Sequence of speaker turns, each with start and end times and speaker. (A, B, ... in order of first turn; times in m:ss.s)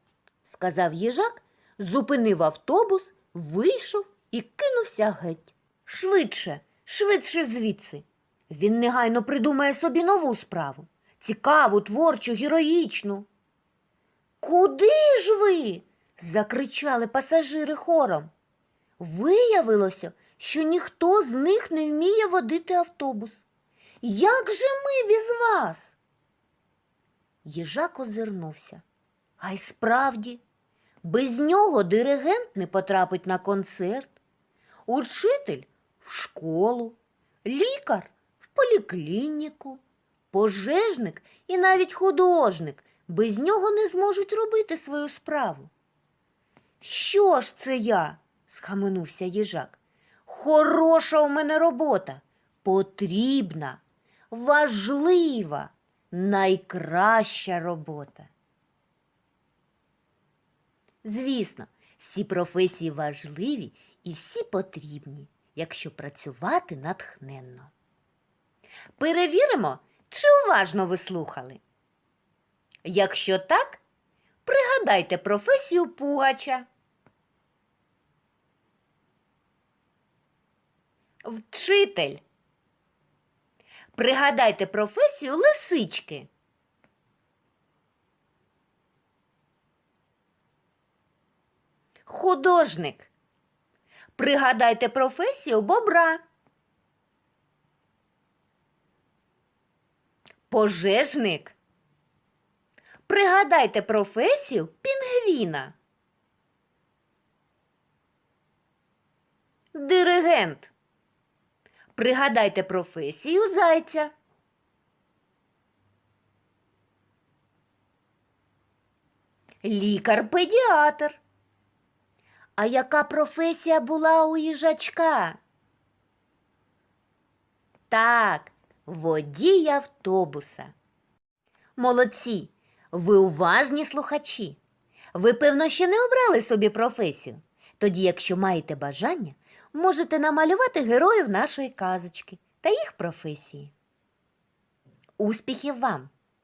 0:00.4-0:13.3 A
0:14.4-0:18.3 A
0:19.0-0:23.4 A
0:24.0-0:25.9 A
0:27.4-0:28.8 A
0:29.4-0:30.4 A
0:31.0-0:34.2 A
0:34.9-0:45.7 A
0:46.8-0:58.3 A
1:01.0-1:07.7 A
1:09.0-1:11.6 A
1:12.8-1:13.8 A
1:14.4-1:16.7 A
1:21.2-1:22.2 A
1:24.0-1:26.3 A
1:32.1-1:33.1 A
1:34.2-1:36.2 A
1:40.5-1:41.6 A
1:43.1-1:45.8 A
1:49.7-1:50.7 A
1:52.0-1:54.1 A
1:59.6-2:01.2 A
2:02.6-2:05.4 A
2:07.9-2:10.7 A
2:11.8-2:14.6 A
2:15.1-2:23.7 A
2:25.2-2:26.1 A